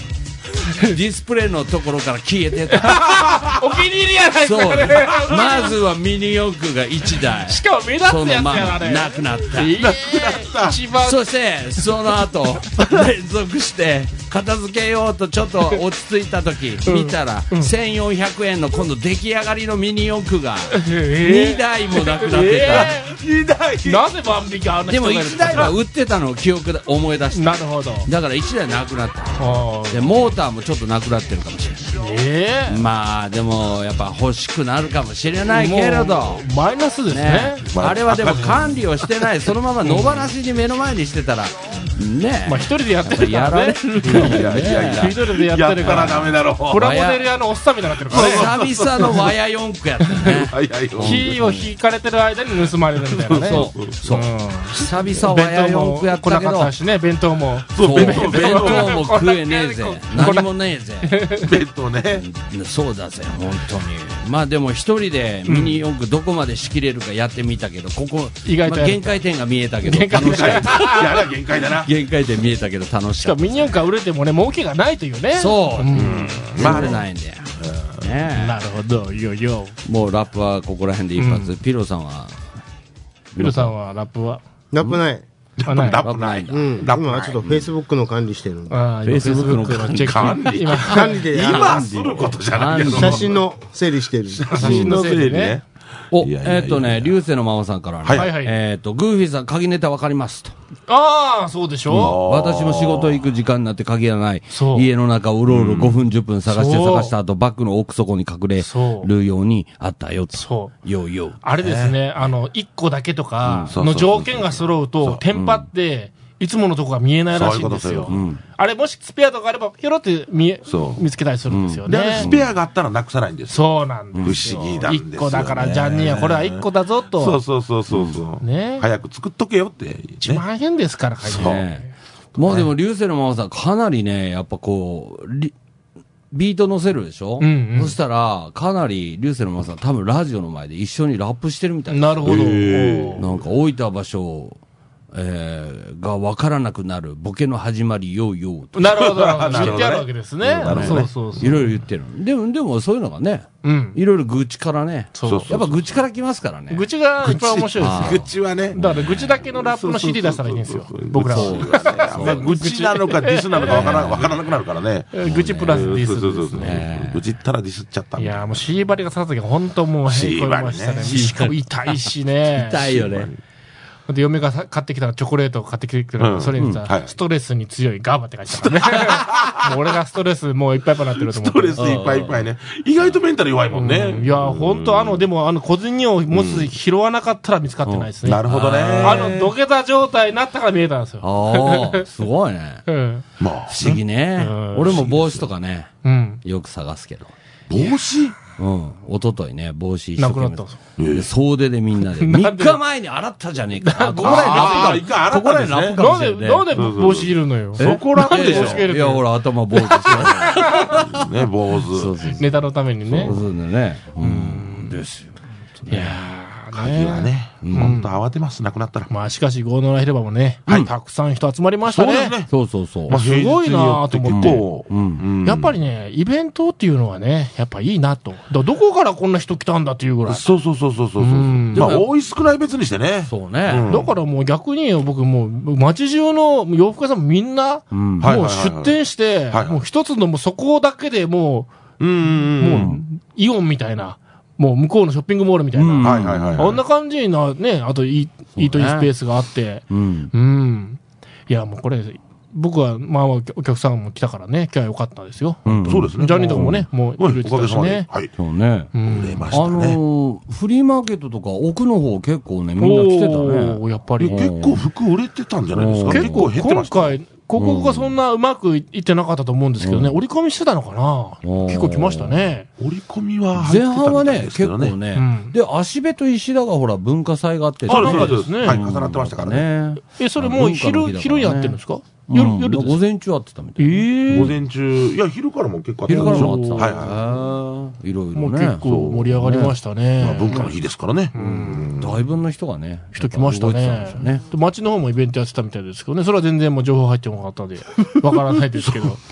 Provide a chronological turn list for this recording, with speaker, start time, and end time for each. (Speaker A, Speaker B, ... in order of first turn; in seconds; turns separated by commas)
Speaker A: 0.7-3.3, Speaker B: 2.7-5.7, Speaker A: 4.4-9.8, Speaker B: 7.5-11.2, Speaker C: 9.8-10.8, Speaker A: 10.9-22.9, Speaker B: 16.9-17.7, Speaker B: 20.7-23.1, Speaker C: 22.7-24.1, Speaker B: 23.9-25.7, Speaker A: 24.9-32.0, Speaker B: 27.3-28.1, Speaker B: 29.4-30.1, Speaker B: 32.0-32.8, Speaker A: 32.7-36.5, Speaker B: 35.5-37.6, Speaker A: 37.1-45.2, Speaker C: 37.7-38.8, Speaker B: 39.8-40.3, Speaker B: 42.5-49.1, Speaker C: 44.0-46.9, Speaker A: 45.8-47.3, Speaker C: 48.1-49.3, Speaker A: 48.1-51.7, Speaker B: 50.0-50.4, Speaker C: 50.3-51.3, Speaker B: 51.0-60.5, Speaker C: 53.1-54.1, Speaker A: 53.3-56.7, Speaker C: 57.7-59.0, Speaker A: 57.8-61.2, Speaker B: 61.0-61.5, Speaker C: 61.4-62.2, Speaker A: 62.1-71.2, Speaker B: 65.5-65.8, Speaker B: 68.5-69.2, Speaker B: 69.8-71.2, Speaker C: 70.2-71.9, Speaker A: 71.8-73.7, Speaker B: 73.2-77.0, Speaker A: 75.3-78.6, Speaker C: 75.9-77.0, Speaker C: 77.6-78.0, Speaker B: 78.3-79.8, Speaker A: 79.8-82.5, Speaker B: 81.2-81.5, Speaker A: 83.3-83.7, Speaker B: 83.4-84.4, Speaker D: 84.7-85.2, Speaker C: 85.6-87.6, Speaker B: 85.7-86.0, Speaker A: 86.0-86.8, Speaker D: 86.5-88.8, Speaker B: 88.7-91.2, Speaker A: 89.0-93.3, Speaker C: 90.0-93.4, Speaker D: 90.9-91.9, Speaker D: 92.8-94.5, Speaker C: 94.3-97.1, Speaker B: 94.5-95.6, Speaker A: 94.6-95.0, Speaker A: 96.1-100.5, Speaker C: 98.0-98.3, Speaker B: 98.1-98.5, Speaker B: 100.9-102.2, Speaker C: 101.9-103.3, Speaker A: 101.9-111.4, Speaker B: 104.5-104.9, Speaker C: 105.5-106.0, Speaker B: 106.5-107.1, Speaker B: 108.6-109.1, Speaker B: 110.3-110.7, Speaker B: 111.4-122.3, Speaker C: 111.6-112.0, Speaker A: 113.5-113.7, Speaker C: 113.7-115.2, Speaker A: 115.3-115.7, Speaker C: 117.3-118.2, Speaker A: 118.1-118.4, Speaker C: 120.7-121.1, Speaker A: 121.5-122.5, Speaker C: 121.9-130.4, Speaker B: 123.5-127.4, Speaker A: 124.1-124.4, Speaker A: 127.9-128.2, Speaker B: 128.4-128.9, Speaker B: 130.2-131.9, Speaker C: 131.3-131.6, Speaker A: 131.3-135.5, Speaker A: 136.3-144.6, Speaker B: 137.4-138.0, Speaker B: 141.9-143.3, Speaker C: 142.2-143.4, Speaker A: 145.1-149.8, Speaker B: 148.8-151.8, Speaker C: 148.9-151.6, Speaker A: 150.5-156.9, Speaker B: 153.6-154.0, Speaker B: 155.2-155.5, Speaker C: 155.2-155.8, Speaker B: 156.7-164.2, Speaker C: 157.2-168.7, Speaker A: 157.8-158.2, Speaker A: 158.8-159.0, Speaker A: 161.2-162.5, Speaker A: 163.6-164.3, Speaker B: 165.1-166.8, Speaker A: 165.2-166.0, Speaker A: 166.6-167.2, Speaker B: 168.2-173.0, Speaker C: 170.1-171.3, Speaker A: 171.1-171.5, Speaker A: 172.5-173.3, Speaker C: 172.8-173.4, Speaker B: 174.1-181.9, Speaker C: 176.2-177.2, Speaker A: 176.6-176.8, Speaker C: 178.6-179.8, Speaker C: 181.2-185.3, Speaker A: 181.8-182.4, Speaker B: 183.7-188.5, Speaker C: 186.3-186.7, Speaker A: 187.8-189.5, Speaker C: 188.2-189.4, Speaker B: 189.0-192.1, Speaker A: 191.2-192.8, Speaker B: 192.9-193.2, Speaker C: 193.4-194.0, Speaker A: 193.7-195.9, Speaker B: 193.8-195.1, Speaker C: 194.8-195.5, Speaker B: 196.0-196.4, Speaker A: 196.4-197.3, Speaker C: 197.7-198.4, Speaker A: 198.6-206.9, Speaker B: 200.2-200.8, Speaker C: 201.0-201.3, Speaker B: 202.1-202.8, Speaker B: 203.8-205.0, Speaker C: 204.2-206.0, Speaker B: 205.9-211.0, Speaker C: 206.7-208.9, Speaker A: 207.8-211.2, Speaker C: 210.2-212.2, Speaker A: 211.9-212.5, Speaker B: 212.4-213.4, Speaker A: 213.1-216.2, Speaker B: 214.2-215.0, Speaker B: 215.9-218.1, Speaker C: 216.7-219.1, Speaker A: 217.6-218.0, Speaker B: 219.1-222.3, Speaker C: 221.8-222.5, Speaker A: 222.5-223.2, Speaker C: 223.1-225.8, Speaker B: 223.1-224.7, Speaker A: 224.3-225.2, Speaker B: 225.4-230.5, Speaker C: 230.2-234.1, Speaker B: 231.2-231.9, Speaker A: 231.7-232.1, Speaker A: 233.3-233.9, Speaker B: 233.9-241.7, Speaker A: 237.9-238.3, Speaker C: 238.2-239.0, Speaker C: 239.5-239.8, Speaker C: 242.0-243.0, Speaker B: 242.4-258.1, Speaker A: 242.7-243.0, Speaker A: 245.7-246.8, Speaker C: 246.0-246.8, Speaker A: 248.6-249.1, Speaker A: 249.9-250.3, Speaker A: 255.7-256.9, Speaker C: 255.8-258.3, Speaker A: 258.4-259.0, Speaker B: 258.9-259.5, Speaker C: 259.0-260.0, Speaker A: 259.5-264.8, Speaker B: 262.8-264.5, Speaker C: 264.2-267.2, Speaker A: 265.7-266.5, Speaker B: 266.1-272.7, Speaker A: 267.6-268.1, Speaker A: 269.8-270.2, Speaker A: 271.4-272.4, Speaker C: 272.8-275.0, Speaker A: 273.6-284.5, Speaker B: 275.1-275.5, Speaker B: 277.9-278.8, Speaker C: 277.9-279.7, Speaker B: 280.1-283.0, Speaker B: 283.8-284.6, Speaker C: 284.3-287.2, Speaker A: 286.1-289.8, Speaker B: 286.1-287.1, Speaker B: 288.4-290.7, Speaker C: 288.8-289.3, Speaker C: 290.2-292.2, Speaker B: 291.3-291.9, Speaker A: 291.4-294.4, Speaker B: 293.1-299.2